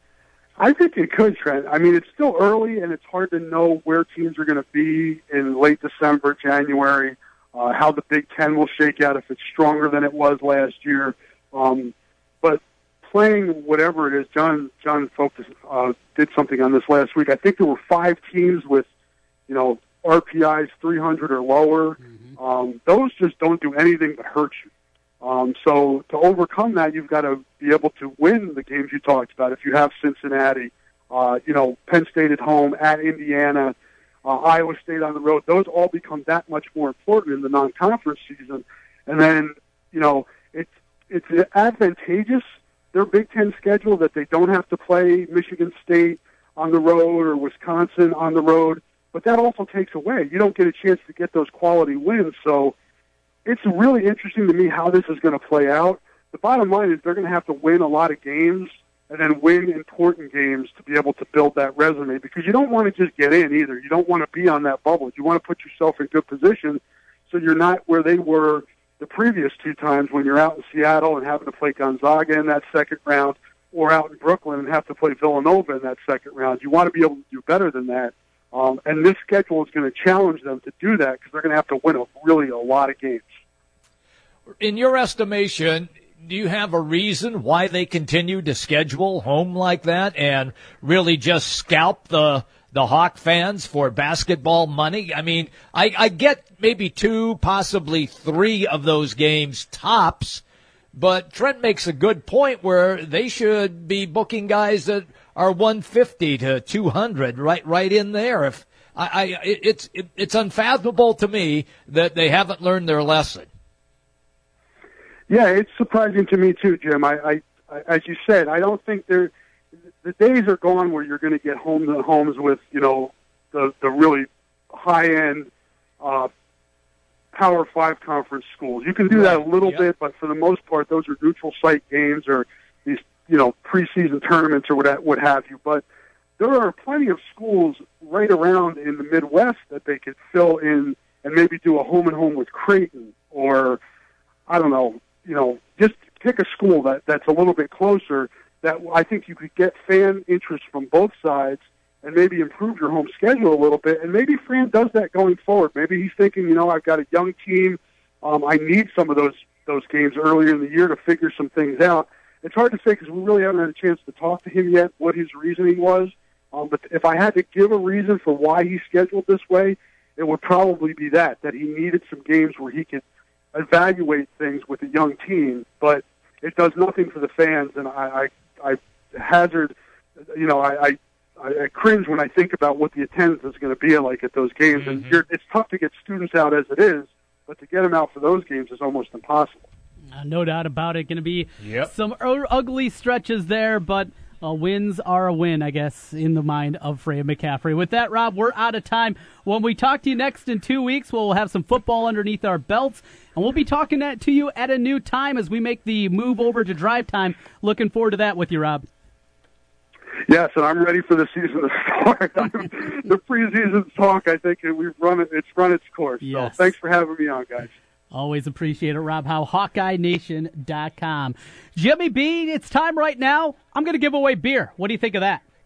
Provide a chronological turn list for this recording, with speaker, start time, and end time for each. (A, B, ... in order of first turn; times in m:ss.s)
0:00.6-0:18.9 A
0:19.5-0:24.7 A
0:25.2-0:52.7 A
0:53.4-1:23.3 A
1:24.6-1:40.4 B
1:40.9-1:53.5 B
1:55.3-1:59.3 A
2:00.0-2:06.3 A
2:07.3-2:15.8 A
2:09.1-2:09.9 B
2:16.4-2:23.8 A
2:24.5-2:53.0 A
2:53.5-2:59.7 A
3:00.3-3:09.6 A
3:04.7-3:05.2 B
3:10.2-3:28.9 C
3:11.6-3:11.9 B
3:30.3-3:37.7 A
3:36.2-3:36.7 C
3:38.1-3:45.4 C